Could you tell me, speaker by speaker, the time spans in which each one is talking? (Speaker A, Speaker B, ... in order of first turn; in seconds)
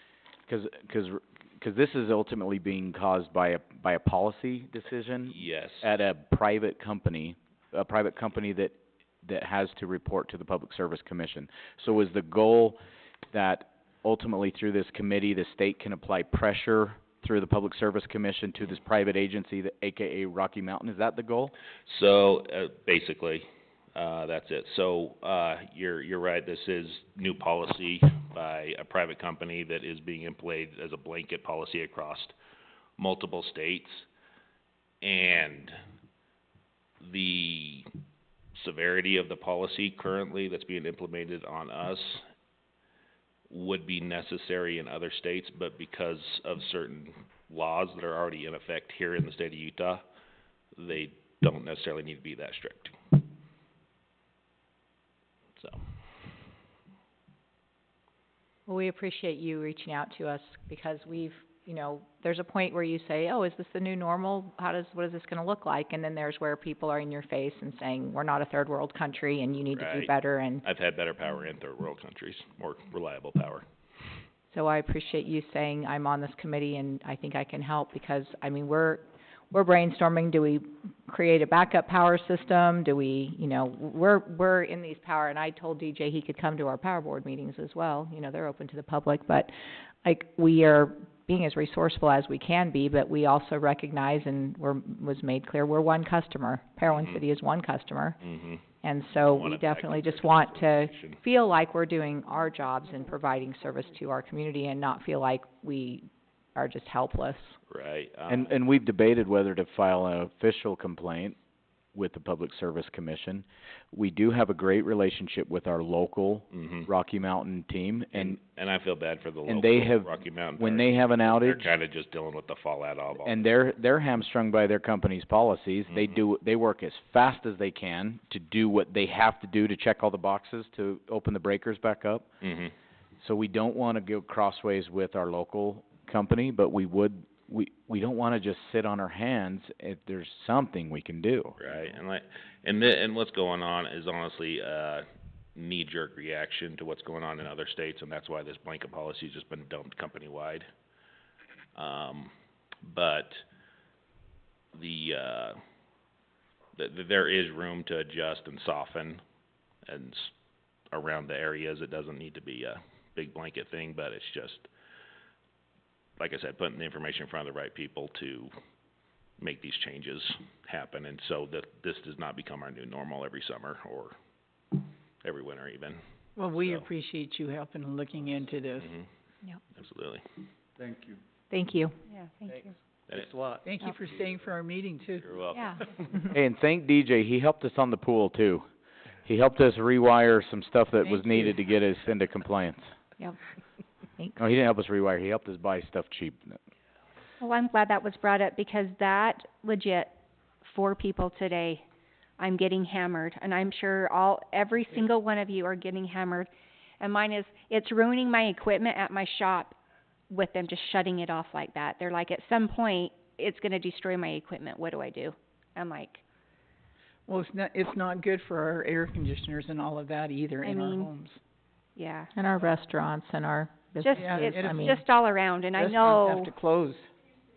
Speaker A: 0.5-12.8, 13.3-21.5, 108.3-111.4, 111.9-118.4, 119.5-121.7, 123.2-132.3, 133.2-141.6, 186.3-188.7, 189.2-192.9, 194.4-196.6
Speaker B: 5.3-5.9, 21.9-32.4, 33.0-34.1, 35.0-35.8, 37.0-37.9, 38.5-42.3, 43.5-50.0, 50.8-53.1, 55.6-55.8, 69.7-73.7, 96.9-97.2, 98.2-98.7, 99.2-101.2, 107.7-108.5, 116.5-116.9, 118.1-123.5, 125.9-126.2, 132.4-132.8, 141.6-150.7, 151.8-153.4, 154.7-155.6, 156.8-159.2, 159.8-160.3, 160.9-164.7, 166.2-168.5, 169.4-174.2, 174.7-176.0, 176.6-176.8, 179.8-180.2, 180.8-181.2, 183.1-183.6, 185.2-185.6
Speaker C: 58.7-70.7, 74.5-89.5, 90.0-98.2, 98.8-107.6, 181.5-182.0, 185.6-185.8, 222.3-225.0
Speaker D: 176.4-178.9, 183.6-185.3, 191.1-191.4, 217.3-221.4, 224.1-225.1, 225.8-227.1
Speaker E: 182.1-182.7, 197.4-201.8, 202.4-206.5, 207.0-209.8, 210.3-216.2, 222.0-222.3, 224.1-226.5